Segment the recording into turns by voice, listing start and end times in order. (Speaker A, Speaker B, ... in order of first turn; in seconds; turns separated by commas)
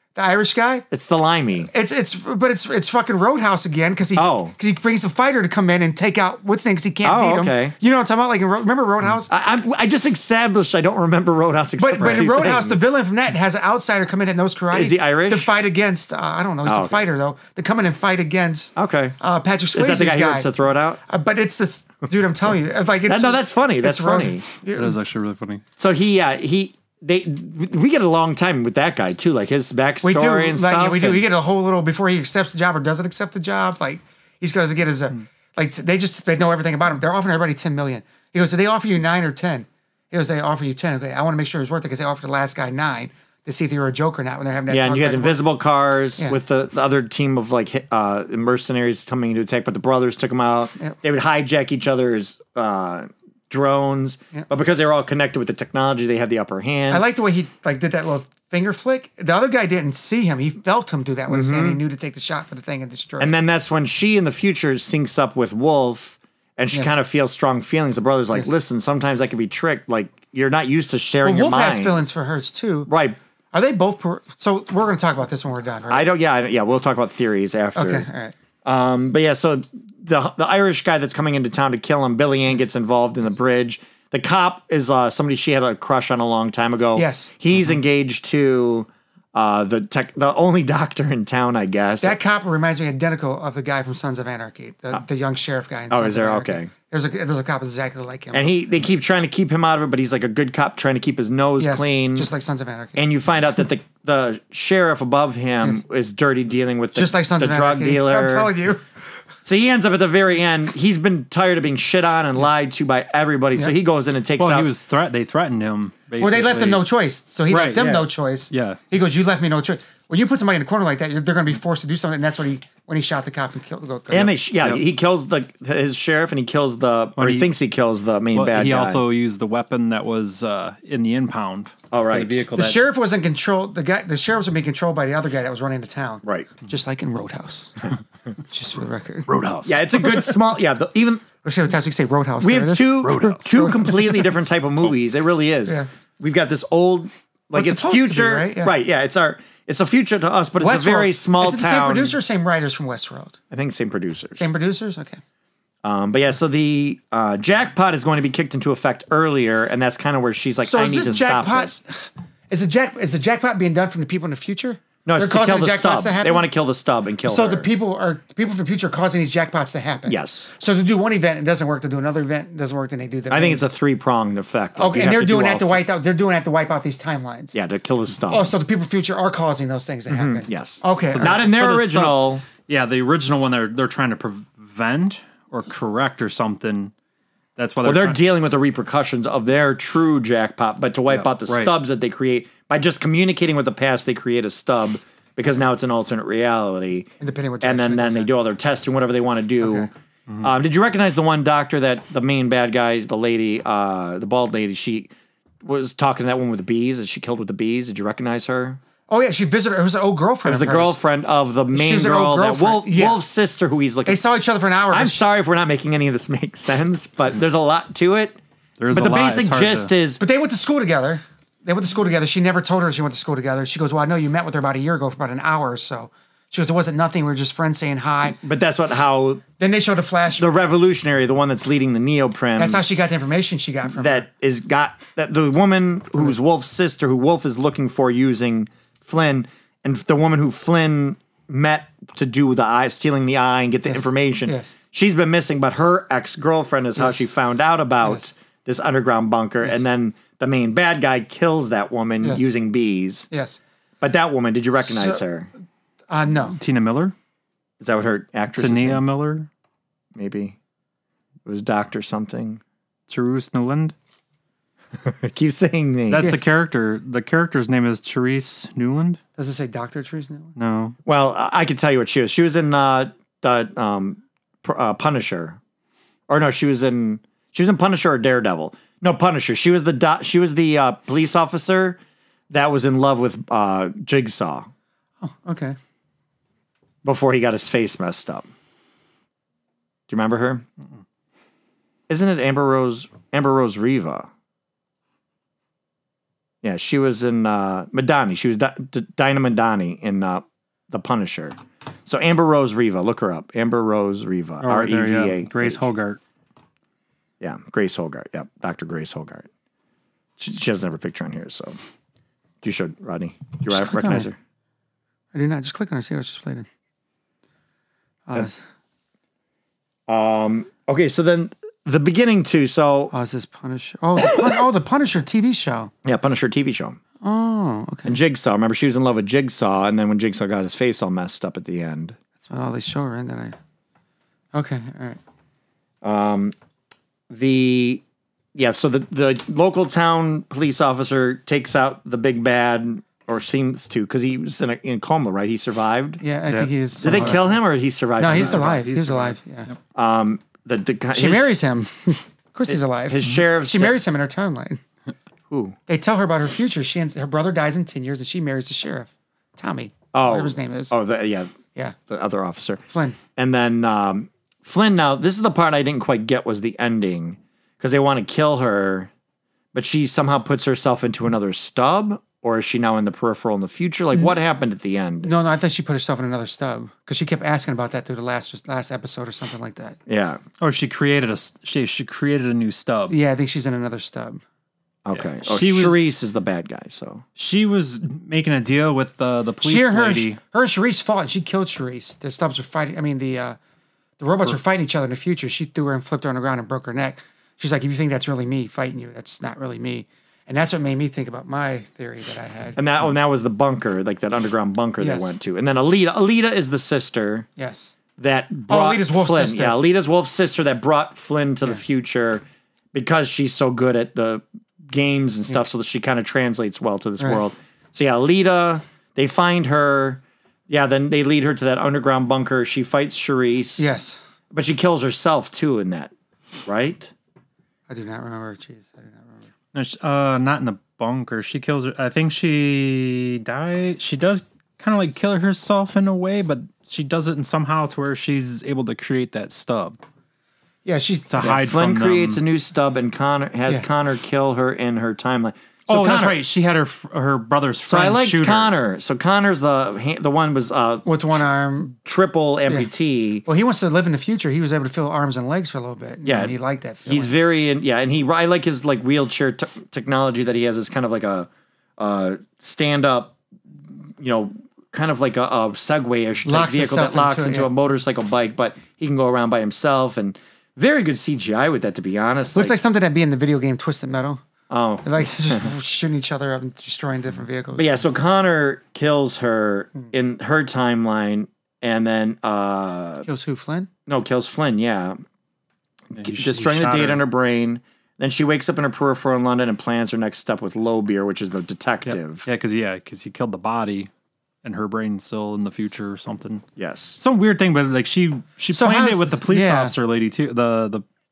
Speaker A: 0.1-0.9, Speaker B: 0.9-1.7, Speaker A: 1.7-9.3, Speaker B: 4.2-4.5, Speaker B: 7.0-7.8, Speaker B: 9.3-12.9, Speaker A: 11.8-20.5, Speaker B: 14.7-15.5, Speaker B: 16.6-17.0, Speaker B: 18.8-19.2, Speaker B: 19.7-21.0, Speaker A: 21.0-24.9, Speaker B: 23.1-24.4, Speaker C: 24.8-25.6, Speaker B: 25.8-31.2, Speaker A: 30.0-45.5, Speaker B: 44.7-57.0, Speaker A: 56.9-63.3, Speaker B: 61.3-61.8, Speaker B: 63.2-72.0, Speaker A: 71.2-72.9, Speaker B: 72.9-73.2, Speaker A: 73.5-76.1, Speaker B: 75.9-78.1, Speaker A: 77.8-78.3, Speaker B: 78.6-92.2, Speaker A: 87.0-87.3, Speaker A: 92.0-98.5, Speaker B: 95.9-96.7, Speaker B: 98.3-102.3, Speaker A: 101.6-103.0, Speaker B: 103.0-108.5, Speaker A: 107.0-108.8, Speaker B: 109.4-114.7, Speaker C: 114.4-116.9, Speaker A: 116.2-124.4, Speaker C: 117.5-118.8, Speaker B: 124.1-129.1, Speaker C: 127.2-127.5, Speaker C: 128.3-132.8, Speaker B: 131.9-132.4, Speaker A: 132.5-137.8, Speaker B: 136.2-136.5, Speaker A: 138.5-139.4, Speaker C: 139.3-140.2, Speaker B: 139.7-141.3, Speaker A: 141.4-144.3, Speaker B: 142.4-152.2, Speaker C: 143.1-143.4, Speaker A: 147.5-148.7, Speaker A: 150.6-153.4, Speaker B: 153.5-154.4, Speaker A: 154.4-155.2, Speaker B: 155.8-161.8, Speaker A: 160.6-166.4, Speaker B: 165.1-167.7, Speaker A: 167.2-173.6, Speaker B: 170.1-170.5, Speaker B: 173.3-175.8, Speaker A: 174.8-177.5, Speaker B: 177.5-178.5, Speaker A: 178.3-181.4, Speaker B: 180.1-182.4, Speaker C: 181.1-186.9, Speaker C: 187.6-188.2, Speaker B: 187.8-197.1, Speaker C: 191.1-191.7, Speaker A: 197.2-198.3, Speaker B: 197.6-199.9, Speaker A: 199.6-199.9, Speaker B: 200.4-205.1, Speaker B: 205.6-208.8, Speaker A: 209.1-211.0, Speaker B: 210.4-214.2, Speaker A: 211.7-213.2, Speaker A: 214.1-215.2, Speaker B: 214.9-218.4, Speaker C: 218.8-219.9, Speaker B: 218.9-220.2, Speaker A: 220.2-228.4, Speaker B: 228.4-229.4, Speaker A: 229.6-230.5, Speaker B: 230.4-233.0, Speaker A: 232.6-234.3, Speaker B: 233.9-253.3, Speaker A: 243.9-244.7, Speaker A: 247.0-247.2, Speaker A: 253.3-253.6, Speaker B: 254.0-255.5, Speaker A: 254.8-255.2, Speaker A: 256.1-256.6, Speaker C: 256.6-257.1, Speaker B: 257.8-259.1, Speaker C: 258.6-259.5, Speaker B: 260.1-260.6, Speaker B: 261.4-262.6, Speaker C: 263.1-263.9, Speaker B: 264.9-266.4, Speaker C: 266.1-269.2, Speaker A: 266.2-266.4, Speaker A: 269.4-270.5, Speaker C: 270.6-271.0, Speaker B: 271.1-275.6, Speaker B: 276.3-282.0, Speaker B: 282.5-284.7, Speaker A: 285.2-285.8, Speaker B: 287.0-288.5, Speaker B: 290.1-290.6, Speaker B: 292.1-294.3, Speaker B: 296.6-305.9, Speaker C: 304.6-306.2, Speaker B: 307.4-309.5, Speaker B: 310.4-311.8, Speaker B: 312.6-314.4, Speaker A: 313.7-314.3, Speaker A: 315.3-316.7, Speaker A: 318.3-318.6, Speaker B: 320.1-323.1, Speaker A: 323.1-325.9, Speaker B: 324.2-324.6, Speaker B: 326.0-327.0, Speaker A: 327.2-328.2, Speaker B: 328.1-332.2, Speaker A: 332.4-333.6, Speaker A: 334.5-335.2, Speaker B: 336.0-336.6, Speaker B: 337.3-338.0, Speaker B: 338.6-346.2, Speaker A: 346.2-347.5, Speaker C: 346.5-347.4, Speaker B: 347.0-348.8, Speaker A: 348.2-349.7, Speaker C: 348.2-349.4, Speaker B: 349.9-351.5, Speaker A: 351.1-354.8, Speaker B: 352.7-354.0, Speaker B: 355.5-355.8, Speaker A: 355.9-360.9, Speaker B: 360.1-361.6, Speaker B: 362.1-362.8, Speaker A: 362.9-363.2, Speaker B: 363.4-369.1, Speaker B: 369.7-375.3, Speaker A: 375.2-380.0, Speaker B: 380.1-380.4, Speaker C: 380.6-383.2, Speaker A: 383.1-384.4, Speaker B: 385.1-387.2, Speaker C: 385.1-386.0, Speaker C: 387.4-390.4, Speaker A: 389.6-393.6, Speaker A: 394.2-402.8, Speaker B: 402.8-407.5, Speaker A: 405.0-405.3, Speaker A: 407.6-407.9, Speaker B: 408.2-423.9, Speaker A: 408.7-409.8, Speaker A: 423.8-424.2, Speaker B: 424.5-426.1, Speaker B: 426.6-427.1, Speaker A: 427.9-429.5, Speaker C: 429.7-440.0, Speaker A: 440.9-441.4, Speaker C: 441.3-442.4, Speaker B: 441.4-446.4, Speaker C: 445.9-448.7, Speaker B: 447.8-451.4, Speaker A: 451.1-452.0, Speaker B: 452.0-453.4, Speaker A: 453.5-457.3, Speaker B: 456.2-463.4, Speaker B: 463.9-472.7, Speaker A: 466.4-467.7, Speaker A: 472.5-474.4, Speaker B: 474.7-475.7, Speaker A: 475.0-478.1, Speaker B: 477.8-483.3, Speaker A: 483.2-483.9, Speaker B: 484.1-485.2, Speaker C: 486.1-487.2, Speaker B: 486.2-492.5, Speaker C: 492.1-494.1, Speaker C: 494.6-496.6, Speaker B: 496.8-497.2, Speaker C: 497.2-501.1, Speaker A: 498.7-499.9